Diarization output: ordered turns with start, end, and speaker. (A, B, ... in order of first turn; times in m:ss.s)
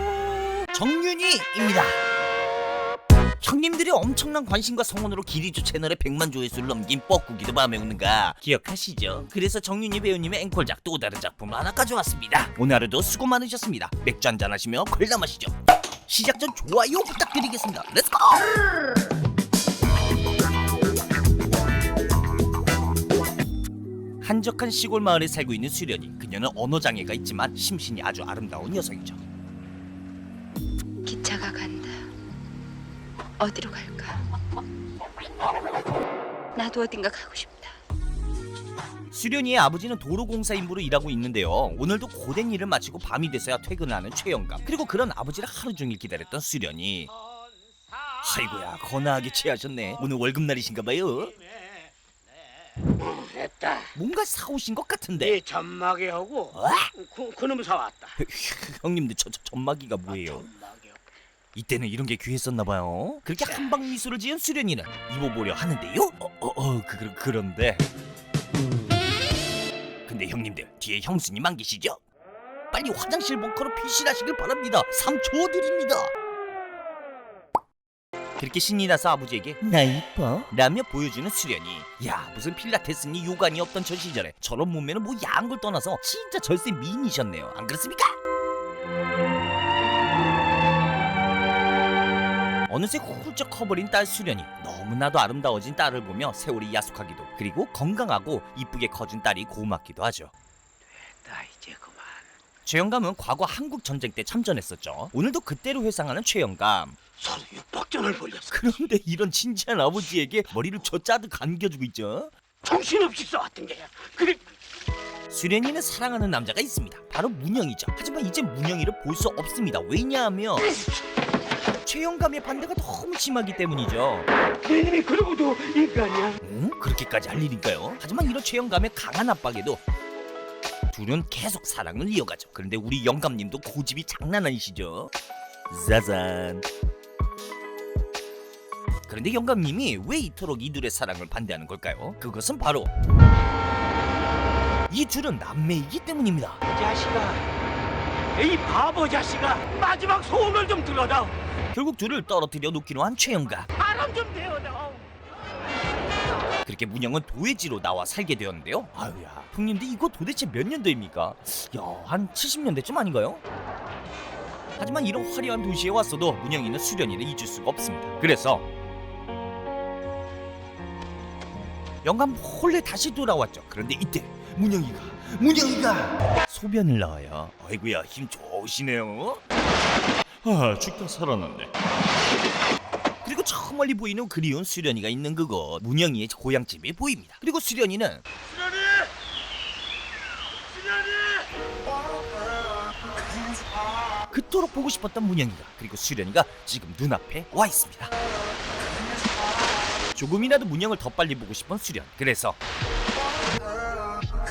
0:00.7-0:02.0 A
0:03.4-0:15.6 A
0:16.1-0:18.5 A
0:24.2-0:29.2 A
0:31.0-0:32.1 B
0:33.4-0:34.2 B
0:36.6-0:37.8 B
0:39.1-0:47.1 A
0:48.2-0:51.3 A
0:53.0-0:53.9 C
0:54.0-0:55.4 A
0:55.2-0:58.2 C
0:56.5-0:56.9 A
0:58.2-1:00.5 A
1:00.1-1:00.9 C
1:01.6-1:07.8 A
1:10.1-1:12.0 A
1:12.7-1:16.1 A
1:18.4-1:28.2 A
1:32.7-1:40.3 A
1:41.1-1:42.2 C
1:42.6-1:47.0 A
1:47.2-1:48.5 C
1:48.5-1:52.3 A
1:52.6-1:54.4 C
1:55.3-2:00.7 A
2:01.8-2:04.3 A
2:04.6-2:06.4 C
2:06.4-2:09.8 A
2:10.9-2:15.1 A
2:15.7-2:16.7 A
2:19.1-2:22.9 A
2:24.9-2:26.6 A
2:26.7-2:27.4 C
2:28.3-2:31.3 C
2:31.7-2:33.7 A
2:33.8-2:35.0 C
2:36.6-2:43.4 A
2:44.8-2:48.7 A
2:52.0-2:59.4 A
3:00.4-3:01.7 A
3:03.2-3:08.2 A
3:14.3-3:18.1 A
3:20.1-3:22.6 A